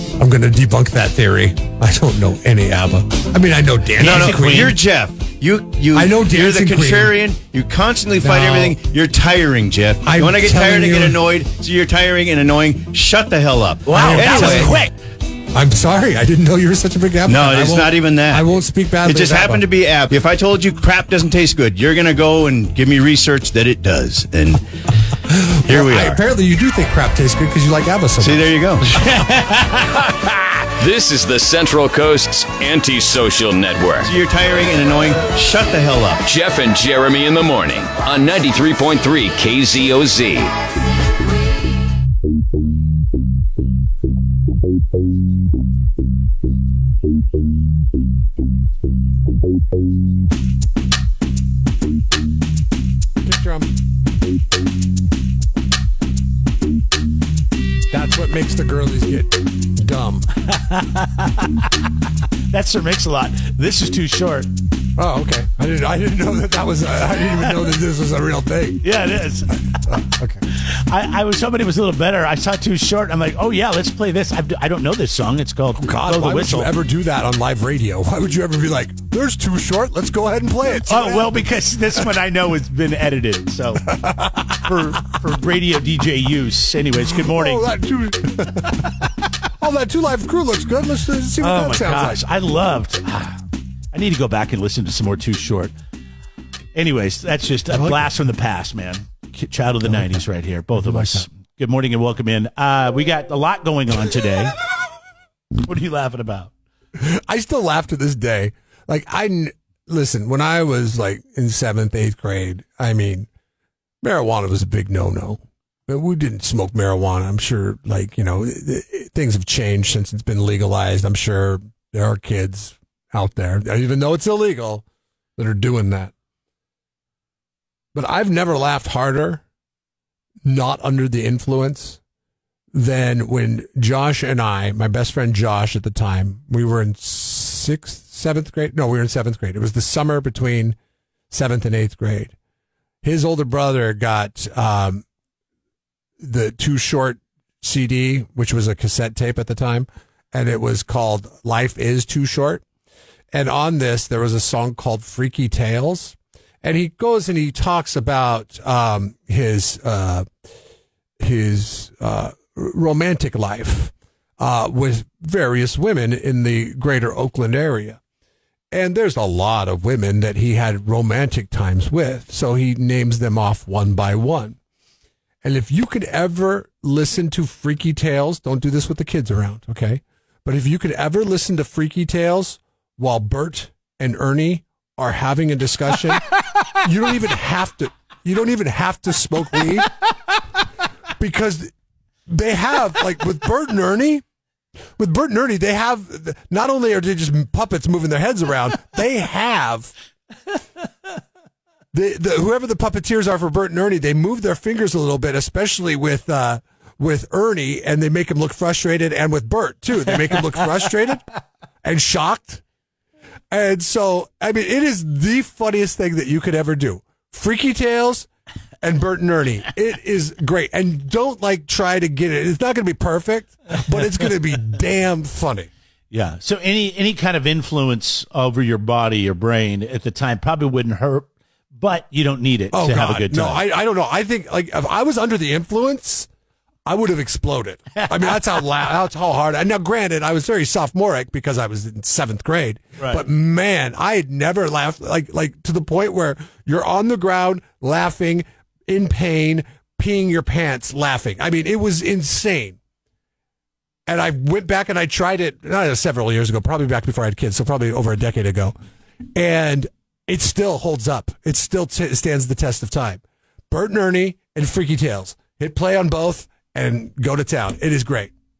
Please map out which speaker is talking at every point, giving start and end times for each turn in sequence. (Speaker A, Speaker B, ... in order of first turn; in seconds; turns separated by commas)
Speaker A: 0.2-4.8, Speaker B: 4.0-4.7, Speaker C: 4.0-14.8, Speaker A: 5.9-7.2, Speaker A: 8.2-8.8, Speaker A: 10.0-11.3, Speaker B: 13.8-14.9, Speaker A: 13.9-14.9, Speaker A: 15.5-19.6, Speaker C: 17.2-18.5, Speaker C: 19.0-24.6, Speaker A: 25.3-29.0, Speaker C: 25.6-26.2, Speaker C: 28.2-29.2, Speaker D: 30.8-34.1, Speaker C: 34.0-36.2, Speaker D: 36.2-40.5, Speaker A: 53.2-53.7, Speaker A: 57.9-60.3, Speaker B: 60.5-61.7, Speaker B: 62.5-64.5, Speaker A: 65.0-68.8, Speaker B: 68.8-69.8, Speaker A: 69.9-70.4, Speaker B: 70.5-76.7, Speaker A: 75.8-81.3, Speaker B: 80.9-84.0, Speaker A: 83.9-84.9, Speaker B: 84.6-87.7, Speaker A: 87.2-89.1, Speaker A: 89.6-92.2, Speaker B: 91.4-95.7, Speaker B: 96.7-104.6, Speaker A: 97.7-98.0, Speaker A: 99.8-100.2, Speaker A: 100.7-101.3, Speaker B: 105.6-106.5, Speaker A: 107.0-113.3, Speaker A: 114.0-124.8, Speaker A: 125.4-126.1, Speaker A: 127.9-129.4, Speaker A: 130.4-132.0, Speaker A: 132.7-140.8, Speaker A: 141.3-142.3, Speaker A: 143.0-145.0, Speaker A: 146.2-152.6, Speaker A: 153.3-160.3, Speaker A: 161.2-168.0, Speaker A: 168.7-174.6, Speaker A: 175.4-189.9, Speaker A: 191.2-191.7, Speaker A: 192.3-194.2, Speaker A: 195.0-199.9, Speaker A: 201.9-211.3, Speaker A: 211.8-212.6, Speaker A: 213.5-218.3, Speaker A: 218.8-225.7, Speaker B: 226.1-233.6, Speaker A: 232.7-236.3, Speaker A: 236.8-252.8, Speaker B: 237.9-238.6, Speaker B: 243.0-243.2, Speaker A: 254.1-258.7, Speaker A: 259.3-268.3